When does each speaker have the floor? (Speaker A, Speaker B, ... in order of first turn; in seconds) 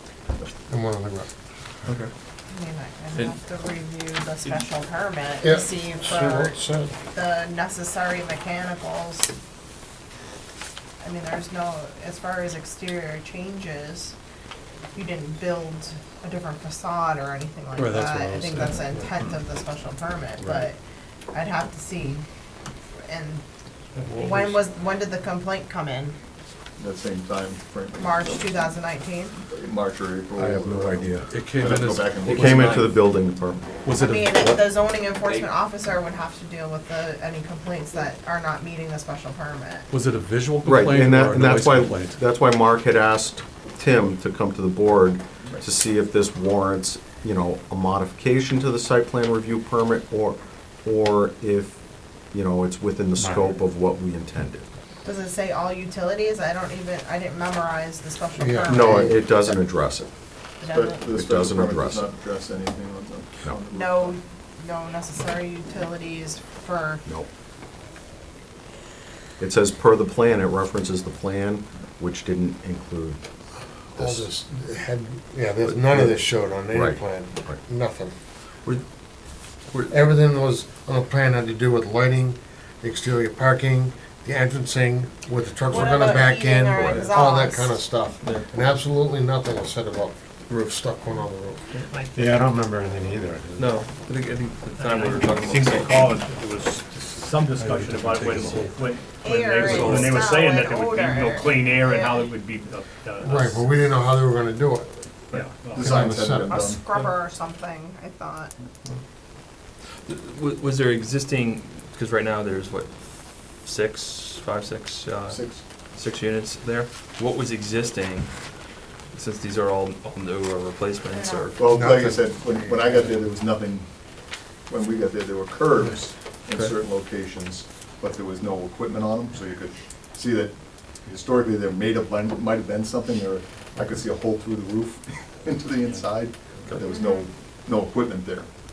Speaker A: 0.7-1.3, 5.4-6.9, 30.4-31.2, 58.4-59.3, 73.9-78.1, 79.9-91.6, 92.1-93.7, 103.2-104.9, 105.7-106.7, 121.7-122.9
Speaker B: 1.9-2.1, 24.0-24.5, 79.7-80.1, 93.6-96.3, 99.6-100.3, 110.0-113.0, 113.5-118.5, 119.1-121.6
Speaker C: 2.5-6.6, 7.1-9.3, 11.0-14.1, 14.9-20.8, 21.3-22.2, 23.0-23.4, 24.1-26.1, 28.0-29.3, 33.9-39.9, 55.0-59.3, 60.6-61.0, 63.7-67.0, 85.7-87.8, 99.2-102.3, 106.5-108.5, 121.1-121.5, 136.9-137.2
Speaker D: 17.8-19.4, 20.4-20.7, 31.2-32.8, 33.8-34.6, 39.9-42.2, 97.6-98.7
Speaker E: 26.8-28.7, 29.4-32.9, 60.6-64.1, 105.3-106.8, 115.3-115.6, 121.5-123.8, 124.7-130.5, 131.0-138.5
Speaker F: 32.3-33.7, 40.6-51.8, 52.3-54.7, 58.7-60.1, 61.1-62.1, 69.4-73.2, 74.0-74.3, 75.7-76.1, 76.7-77.6
Speaker G: 94.8-103.9, 105.3-106.0